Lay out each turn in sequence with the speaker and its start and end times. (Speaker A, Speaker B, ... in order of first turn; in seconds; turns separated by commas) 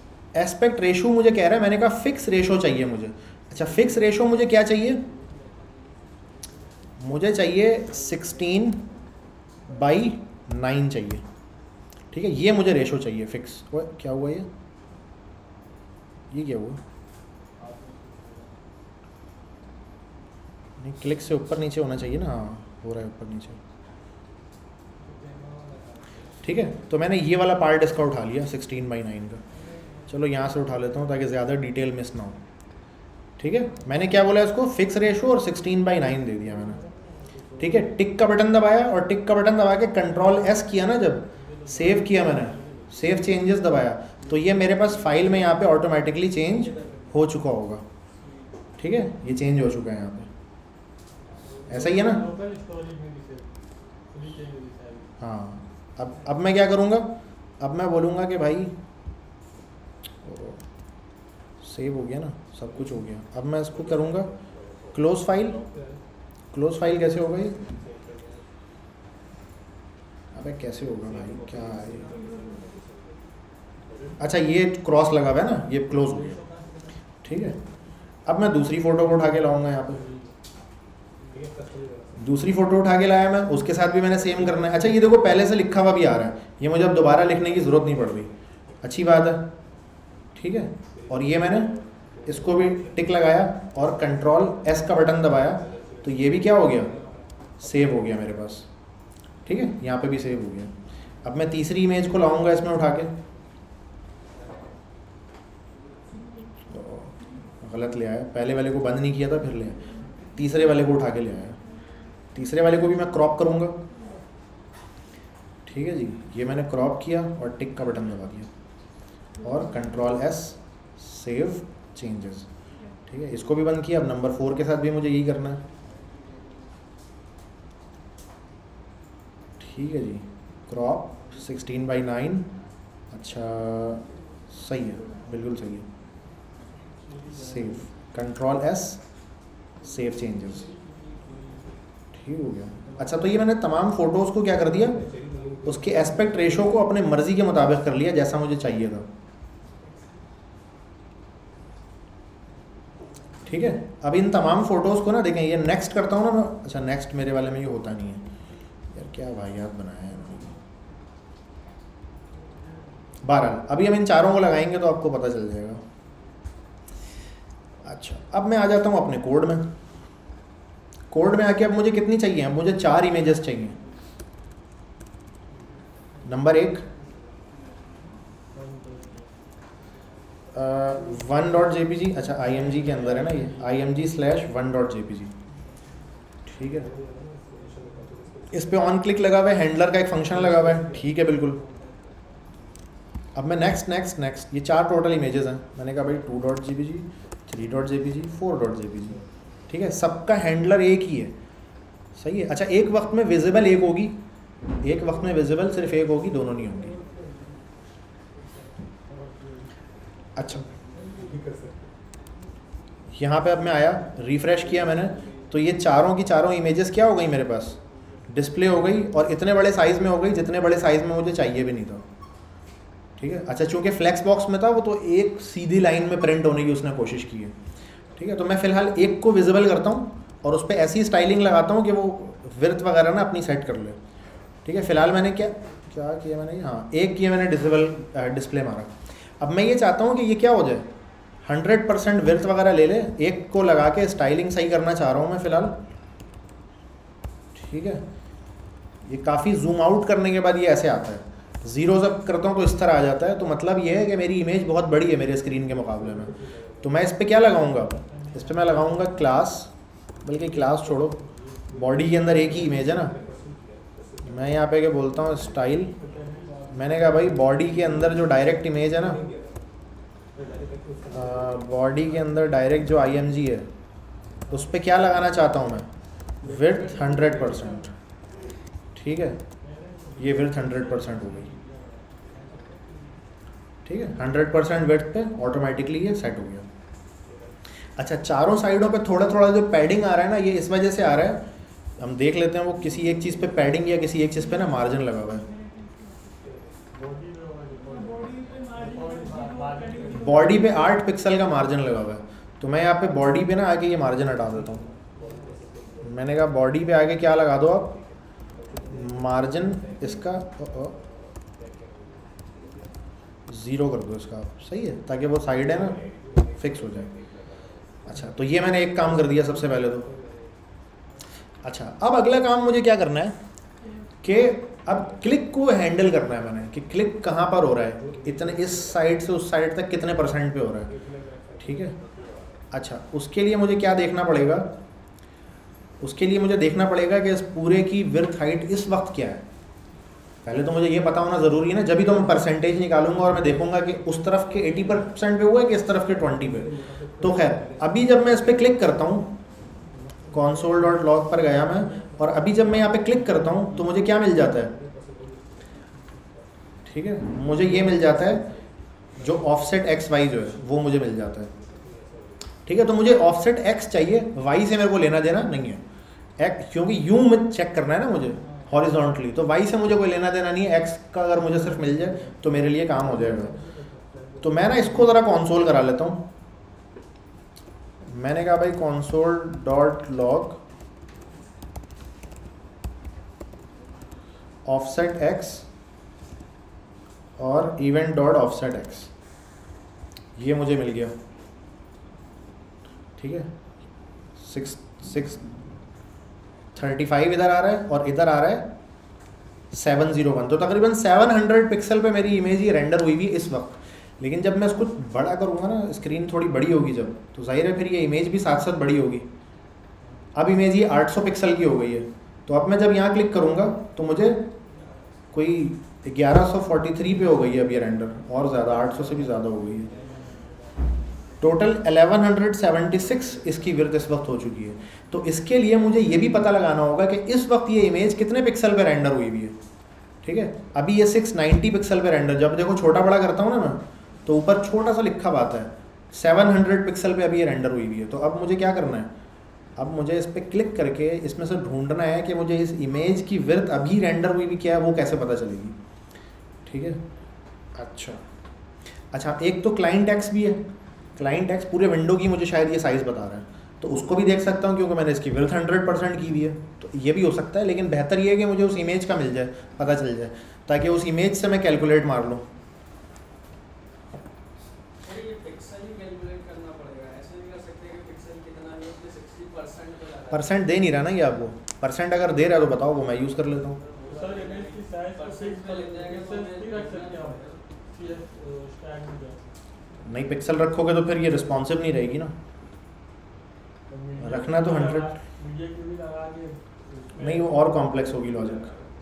Speaker A: 0.3-5.0, Speaker A: 7.0-8.9, Speaker A: 9.7-11.2, Speaker A: 12.1-14.5, Speaker A: 16.3-16.8, Speaker B: 17.6-18.6, Speaker A: 20.8-23.6, Speaker C: 25.0-26.2, Speaker A: 26.4-29.4, Speaker A: 30.1-32.4, Speaker A: 33.4-36.8, Speaker A: 37.6-47.8, Speaker B: 41.4-42.9, Speaker C: 46.6-47.1, Speaker C: 48.2-48.5, Speaker A: 48.8-50.3, Speaker B: 51.5-53.5, Speaker A: 51.7-52.2, Speaker B: 54.1-55.1, Speaker A: 55.2-58.7, Speaker A: 60.2-60.6, Speaker A: 61.6-64.3, Speaker D: 63.7-66.0, Speaker A: 64.9-65.6, Speaker A: 66.5-67.6, Speaker D: 67.4-68.4, Speaker A: 70.3-72.1, Speaker D: 71.0-73.2, Speaker A: 74.2-76.4, Speaker A: 77.2-77.6, Speaker A: 78.2-80.0, Speaker B: 79.9-80.3, Speaker D: 81.3-82.3, Speaker A: 82.2-88.3, Speaker A: 88.8-89.5, Speaker A: 90.3-91.7, Speaker D: 90.9-93.0, Speaker A: 92.2-96.9, Speaker D: 95.4-97.2, Speaker A: 97.6-98.7, Speaker A: 99.5-100.7, Speaker A: 101.2-103.1, Speaker A: 106.7-111.6, Speaker A: 112.3-113.8, Speaker A: 115.7-118.5, Speaker A: 119.4-122.5, Speaker A: 123.0-125.6, Speaker A: 129.6-132.5, Speaker A: 133.1-135.9, Speaker B: 136.9-137.8, Speaker A: 137.3-139.0, Speaker A: 139.8-140.7, Speaker B: 141.1-141.7, Speaker A: 142.1-145.0, Speaker D: 144.6-146.9, Speaker A: 145.6-149.1, Speaker A: 153.4-158.2, Speaker A: 158.9-160.5, Speaker A: 163.2-165.8, Speaker A: 167.8-169.7, Speaker A: 171.1-173.8, Speaker A: 176.2-176.8, Speaker B: 178.5-179.3, Speaker A: 180.5-185.3, Speaker B: 182.5-183.7, Speaker A: 186.4-186.9, Speaker D: 186.6-188.9, Speaker A: 188.5-191.6, Speaker D: 190.2-191.1, Speaker C: 191.5-192.2, Speaker A: 193.3-199.2, Speaker A: 199.7-201.3, Speaker A: 202.2-204.2, Speaker A: 204.8-206.9, Speaker D: 206.3-207.5, Speaker B: 209.1-209.6, Speaker A: 210.3-210.6, Speaker D: 211.1-211.9, Speaker A: 213.1-222.1, Speaker A: 223.2-227.6, Speaker A: 228.1-234.0, Speaker A: 234.6-240.9, Speaker A: 241.4-245.8, Speaker A: 247.6-248.0, Speaker A: 249.0-259.7, Speaker D: 255.9-257.0, Speaker B: 257.9-259.1, Speaker A: 260.2-261.2, Speaker B: 260.6-261.6, Speaker D: 261.7-264.5, Speaker A: 261.7-263.1, Speaker A: 264.2-265.9, Speaker B: 265.9-268.1, Speaker A: 266.7-269.2, Speaker D: 268.1-269.6, Speaker D: 270.3-271.9, Speaker A: 271.1-273.7, Speaker A: 274.5-275.9, Speaker D: 276.4-277.8, Speaker A: 276.4-277.9, Speaker A: 278.9-279.4, Speaker B: 279.6-282.6, Speaker A: 280.2-281.5, Speaker A: 283.9-286.7, Speaker D: 287.2-287.5, Speaker A: 288.0-291.4, Speaker A: 292.0-295.5, Speaker D: 296.4-296.8, Speaker B: 296.9-300.4, Speaker D: 299.9-300.2, Speaker A: 300.1-304.9, Speaker D: 304.5-306.4, Speaker A: 306.0-308.0, Speaker D: 307.9-312.5, Speaker A: 308.9-310.9, Speaker A: 313.5-316.0, Speaker D: 315.6-318.3, Speaker A: 316.6-317.1, Speaker A: 318.1-320.1, Speaker D: 318.8-320.6, Speaker A: 321.6-323.4, Speaker A: 324.2-330.9, Speaker D: 328.0-329.1, Speaker D: 330.8-332.6, Speaker A: 331.6-331.9, Speaker A: 332.7-334.7, Speaker A: 336.0-339.4, Speaker A: 340.4-349.4, Speaker D: 345.9-349.1, Speaker A: 350.3-354.7, Speaker D: 350.3-350.8, Speaker D: 352.3-353.6, Speaker D: 354.4-355.7, Speaker A: 356.8-358.5, Speaker D: 357.5-359.5, Speaker A: 359.2-361.5, Speaker D: 361.5-362.5, Speaker A: 362.6-365.8, Speaker A: 366.4-373.5, Speaker D: 371.7-375.3, Speaker A: 374.4-376.2, Speaker A: 378.1-380.6, Speaker A: 384.6-385.7, Speaker A: 387.4-389.1, Speaker A: 390.4-391.2, Speaker A: 393.2-393.5, Speaker A: 394.4-395.4, Speaker A: 396.7-398.7, Speaker A: 399.7-409.3, Speaker A: 410.3-414.5, Speaker A: 415.3-419.9, Speaker B: 419.9-420.6, Speaker A: 421.4-429.6, Speaker A: 430.2-439.1, Speaker A: 439.8-445.8, Speaker A: 446.7-447.0, Speaker A: 447.8-448.2, Speaker A: 449.1-450.6, Speaker A: 451.2-462.4, Speaker C: 465.0-470.6, Speaker A: 470.3-473.8, Speaker C: 473.8-477.6, Speaker B: 474.1-477.4, Speaker B: 477.9-479.5, Speaker A: 480.0-482.3, Speaker B: 483.9-487.5, Speaker A: 484.2-485.1, Speaker A: 487.1-488.7